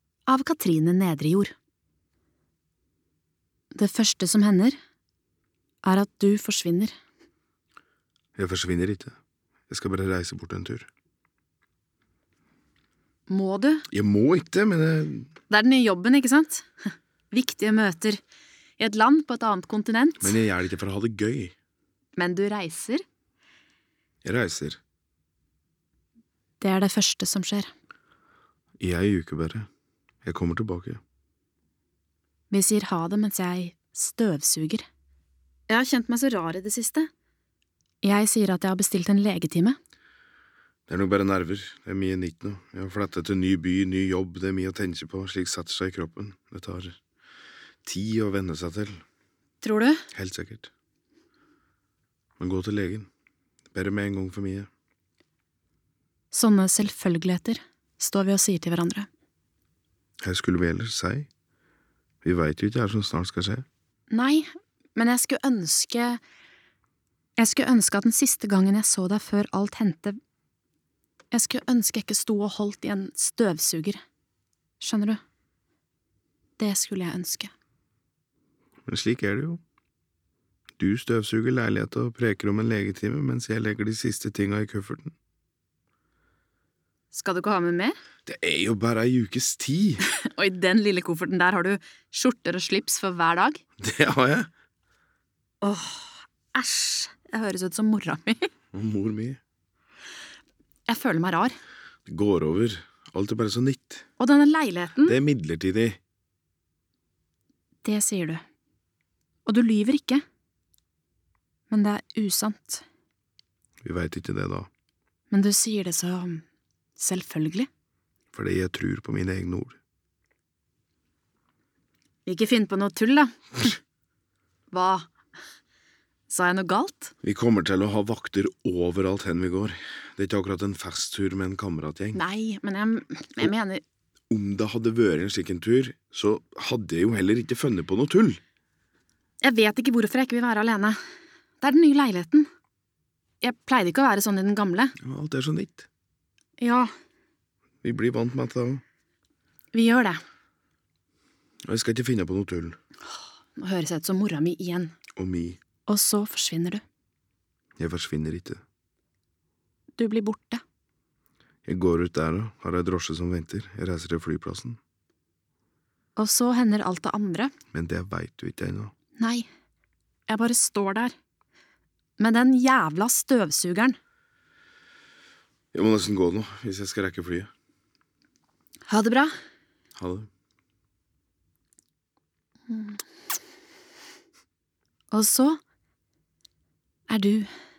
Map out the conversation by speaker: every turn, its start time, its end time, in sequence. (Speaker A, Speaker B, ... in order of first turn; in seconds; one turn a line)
Speaker A: 0.3-1.5
Speaker A: 3.7-4.8
Speaker A: 5.8-6.9
Speaker B: 8.3-9.2
Speaker B: 9.7-10.9
Speaker A: 13.3-13.8
Speaker B: 13.9-15.3
Speaker A: 15.5-16.7
Speaker A: 17.3-18.2
Speaker A: 18.8-20.4
Speaker B: 20.2-21.5
Speaker A: 22.2-23.0
Speaker B: 24.2-24.8
Speaker A: 26.6-27.7
Speaker B: 28.8-29.7
Speaker B: 30.2-31.0
Speaker A: 32.5-34.8
Speaker A: 35.7-37.1
Speaker A: 38.0-39.8
Speaker B: 40.9-47.0
Speaker B: 47.8-49.0
Speaker A: 49.6-50.0
Speaker B: 50.1-50.7
Speaker B: 52.4-53.1
Speaker B: 53.7-54.7
Speaker A: 56.3-59.1
Speaker B: 60.2-61.3
Speaker B: 62.2-63.6
Speaker A: 64.1-66.2
Speaker A: 67.4-70.2
Speaker A: 71.3-74.0
Speaker A: 74.8-75.2
Speaker A: 76.6-77.5
Speaker B: 78.8-79.6
Speaker B: 80.8-85.1
Speaker A: 87.1-88.0
Speaker B: 88.2-90.0
Speaker A: 90.1-93.6
Speaker B: 93.8-94.5
Speaker A: 95.6-98.5
Speaker B: 98.7-99.4
Speaker A: 100.9-101.5
Speaker B: 102.1-104.0
Speaker A: 104.2-105.2
Speaker B: 105.0-106.0
Speaker A: 107.8-108.4
Speaker A: 109.5-110.2
Speaker A: 111.7-112.8
Speaker B: 113.8-114.7
Speaker A: 115.3-116.4
Speaker A: 117.0-117.7
Speaker B: 118.3-119.8
Speaker A: 122.2-123.8
Speaker A: 124.7-125.1
Speaker A: 126.3-127.1
Speaker B: 127.2-132.2
Speaker A: 132.1-133.8
Speaker B: 134.3-138.4
Speaker A: 139.4-141.0
Speaker A: 141.6-142.5
Speaker A: 143.4-144.9
Speaker B: 145.0-145.9
Speaker A: 146.6-146.9
Speaker B: 147.8-148.8
Speaker A: 149.7-150.2
Speaker B: 151.6-152.8
Speaker A: 153.1-154.9
Speaker B: 155.2-155.6
Speaker A: 155.8-156.8
Speaker B: 157.8-158.6
Speaker A: 160.0-160.6
Speaker B: 161.7-164.8
Speaker A: 166.2-167.5
Speaker B: 167.7-168.9
Speaker A: 169.2-169.5
Speaker A: 170.3-171.1
Speaker A: 172.2-173.9
Speaker B: 175.7-177.5
Speaker A: 178.9-179.3
Speaker B: 179.9-180.3
Speaker A: 182.7-183.0
Speaker A: 185.1-185.6
Speaker A: 187.1-187.5